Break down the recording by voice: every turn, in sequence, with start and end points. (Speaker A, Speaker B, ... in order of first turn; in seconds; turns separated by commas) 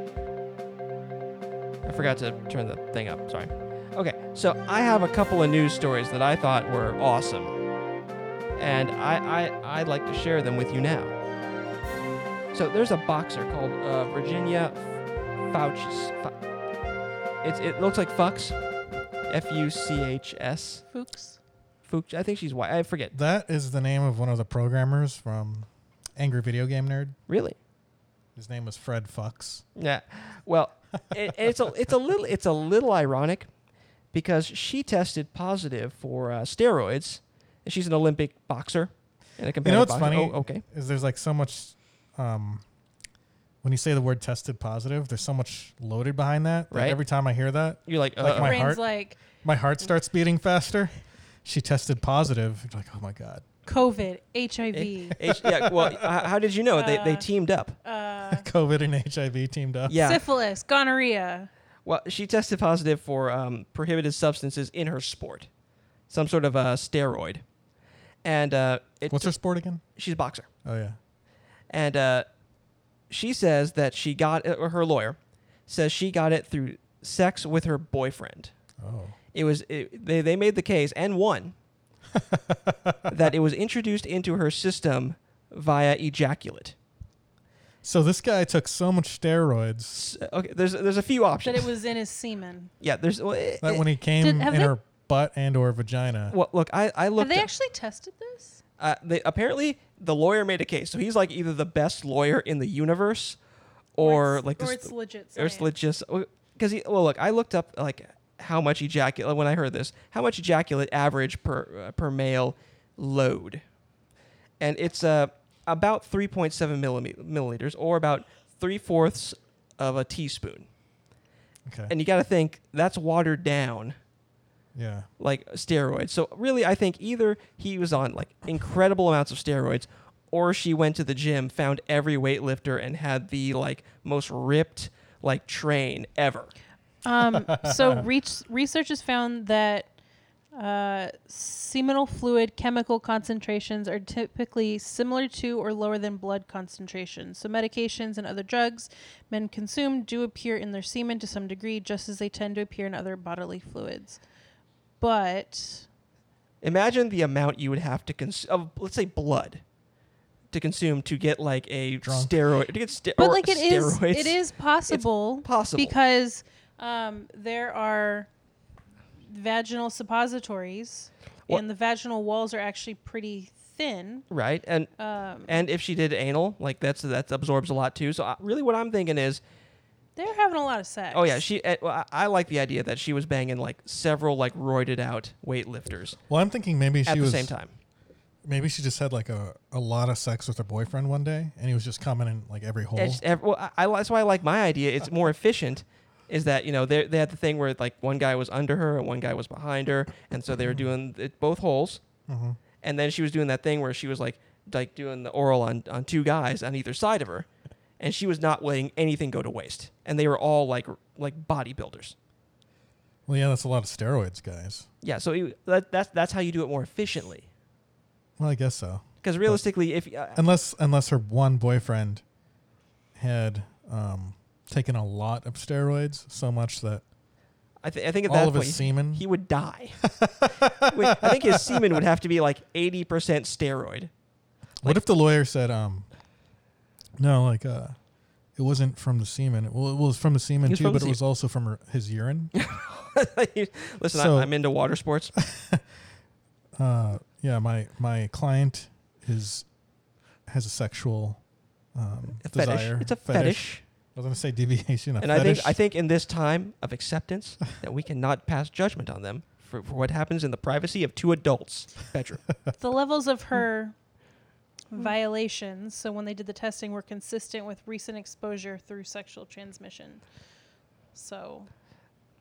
Speaker A: 1.9-7.6, Speaker A: 8.6-11.2, Speaker A: 12.5-15.0, Speaker A: 15.5-16.3, Speaker A: 17.4-18.6, Speaker A: 19.3-20.8, Speaker B: 20.9-21.4, Speaker A: 21.9-23.1, Speaker C: 23.1-27.2, Speaker A: 27.3-27.6, Speaker C: 28.4-29.6, Speaker A: 29.8-33.5, Speaker A: 34.1-40.6, Speaker C: 39.6-42.6, Speaker C: 43.6-50.9, Speaker A: 46.7-47.0, Speaker A: 47.9-48.6, Speaker B: 48.4-49.2, Speaker C: 51.5-53.5, Speaker B: 53.7-55.2, Speaker A: 54.7-57.8, Speaker C: 55.2-56.2, Speaker B: 56.7-57.3, Speaker B: 57.8-58.5, Speaker C: 58.3-60.0, Speaker A: 59.9-60.2, Speaker B: 60.0-61.5, Speaker A: 61.9-65.5, Speaker A: 66.1-67.4, Speaker A: 68.2-69.3, Speaker C: 69.1-69.8, Speaker A: 70.0-70.5, Speaker C: 70.7-71.0, Speaker A: 71.7-72.3, Speaker A: 73.1-78.5, Speaker C: 78.8-79.2, Speaker A: 79.3-81.5, Speaker C: 82.1-83.2, Speaker A: 83.1-86.8, Speaker C: 87.8-90.0, Speaker A: 89.9-91.7, Speaker B: 91.4-92.7, Speaker A: 92.8-93.8, Speaker C: 93.6-96.4, Speaker B: 94.2-94.8, Speaker A: 96.3-97.5, Speaker B: 97.2-98.6, Speaker A: 98.8-103.4, Speaker A: 104.0-113.6, Speaker B: 104.0-105.7, Speaker A: 114.6-120.7, Speaker C: 121.7-121.9, Speaker A: 121.9-124.0, Speaker C: 124.8-125.1, Speaker A: 125.2-136.5, Speaker B: 137.1-139.9, Speaker C: 137.4-138.1, Speaker B: 140.6-154.2, Speaker B: 155.0-155.9, Speaker A: 156.6-159.6, Speaker A: 160.5-166.0, Speaker C: 162.0-162.3, Speaker B: 163.2-168.3, Speaker B: 169.3-174.3, Speaker A: 174.3-174.9, Speaker B: 175.0-175.7, Speaker A: 175.5-179.4, Speaker B: 180.2-181.4, Speaker A: 181.1-186.2, Speaker C: 186.3-187.6, Speaker A: 187.1-187.7, Speaker C: 188.4-193.2, Speaker A: 193.0-202.0, Speaker C: 202.3-202.6, Speaker A: 202.8-207.5, Speaker A: 208.0-212.2, Speaker C: 213.3-214.9, Speaker A: 215.0-217.5, Speaker C: 218.4-219.6, Speaker A: 219.2-220.4, Speaker C: 220.3-222.2, Speaker C: 223.2-227.0, Speaker A: 227.8-230.0, Speaker C: 228.3-229.2, Speaker C: 230.0-232.0, Speaker A: 230.7-234.1, Speaker C: 234.8-236.1, Speaker C: 237.2-238.0, Speaker C: 238.6-242.5, Speaker A: 240.6-241.2, Speaker A: 242.5-245.3, Speaker C: 244.1-244.5, Speaker C: 245.3-245.8, Speaker C: 246.8-249.7, Speaker C: 250.5-251.4, Speaker C: 251.9-255.8, Speaker A: 252.4-253.8, Speaker A: 255.2-262.4, Speaker B: 262.8-263.9, Speaker B: 264.9-270.2, Speaker B: 271.1-271.7